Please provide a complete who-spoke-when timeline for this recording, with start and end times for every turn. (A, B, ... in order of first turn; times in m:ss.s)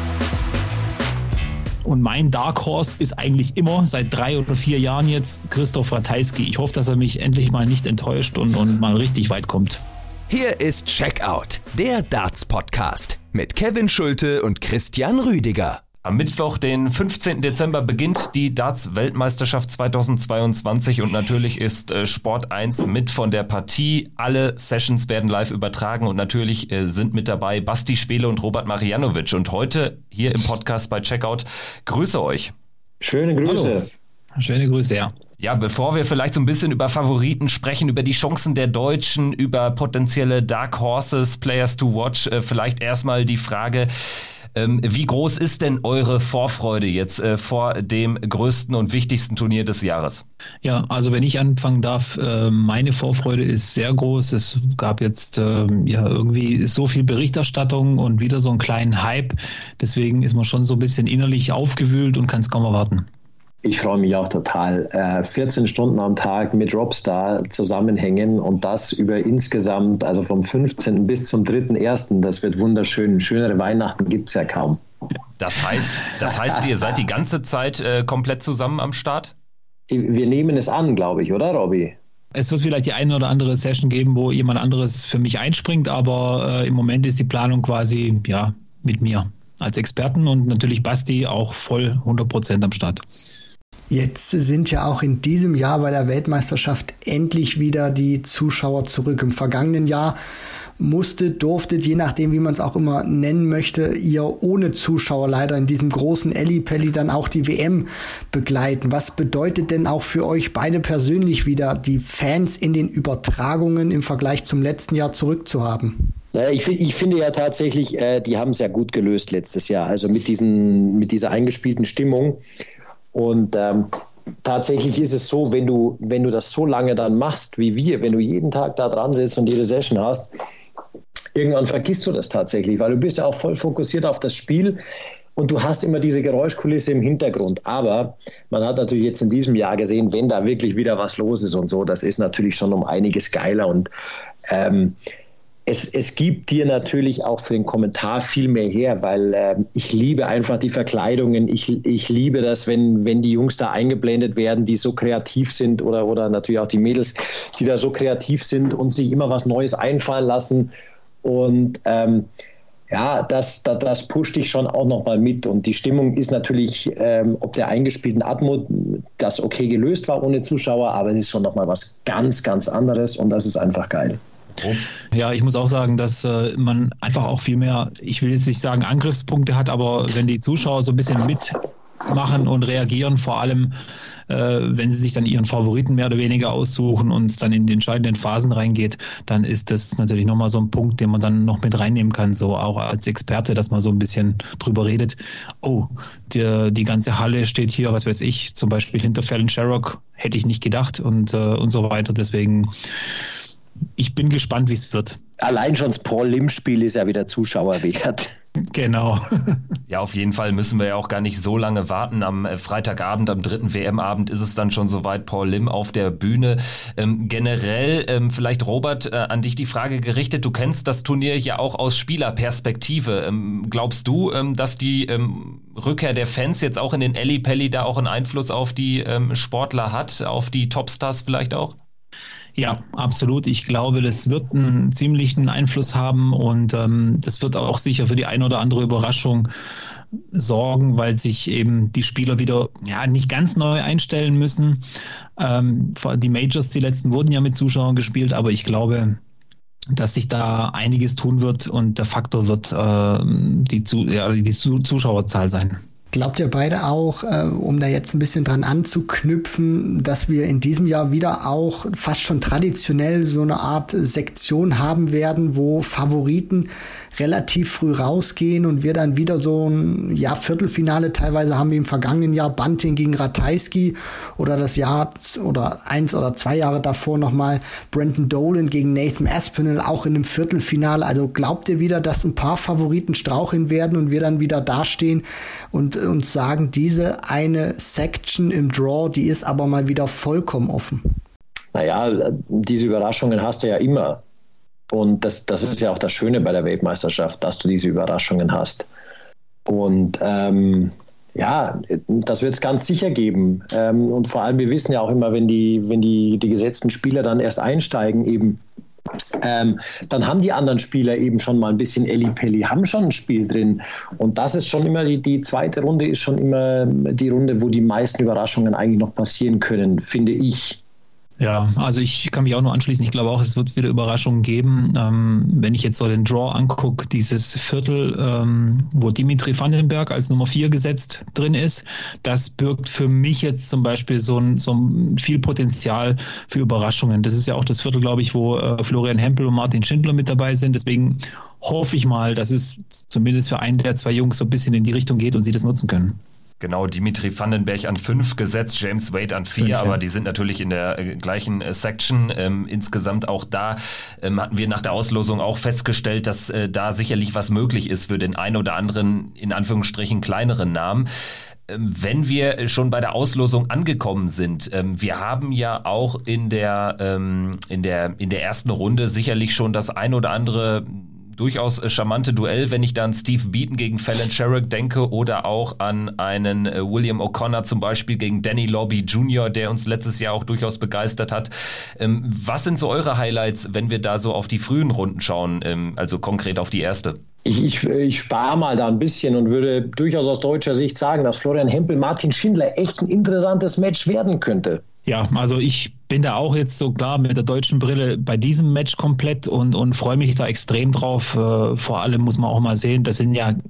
0:01.8-0:09.8 A
0:10.3-0:15.8 B
0:16.0-0:32.5 C
0:33.0-0:33.9 D
0:33.4-0:33.8 A
0:34.4-0:35.1 A
0:35.4-0:43.9 C
0:44.5-0:50.2 C
0:50.6-1:03.1 A
1:03.6-1:14.8 D
1:15.4-1:19.3 C
1:19.9-1:22.0 D
1:22.4-1:33.0 A
1:33.9-1:40.2 E
1:40.8-1:56.1 E
1:56.3-2:02.4 D
2:03.1-2:03.9 D
2:04.4-2:10.3 D
2:11.4-2:14.8 D
2:15.4-2:23.9 D
2:24.5-2:25.0 D
2:25.7-2:42.3 D
2:42.9-2:54.2 D
2:55.1-3:03.7 A
3:04.3-3:22.7 A
3:24.0-3:25.2 A
3:25.4-3:28.3 D
3:28.7-3:29.6 A
3:29.9-3:51.8 C
3:52.6-3:59.5 A
4:00.3-4:04.8 A
4:05.4-4:09.2 A
4:09.9-4:15.8 A
4:16.1-4:51.0 E
4:51.7-4:54.2 D
4:54.9-4:58.9 D
4:59.7-5:08.6 D
5:09.4-5:20.8 D
5:21.4-5:46.2 A
5:46.6-6:01.1 C
5:49.6-5:50.0 A
6:01.7-6:27.2 C
6:27.4-6:34.8 D
6:35.1-6:43.6 A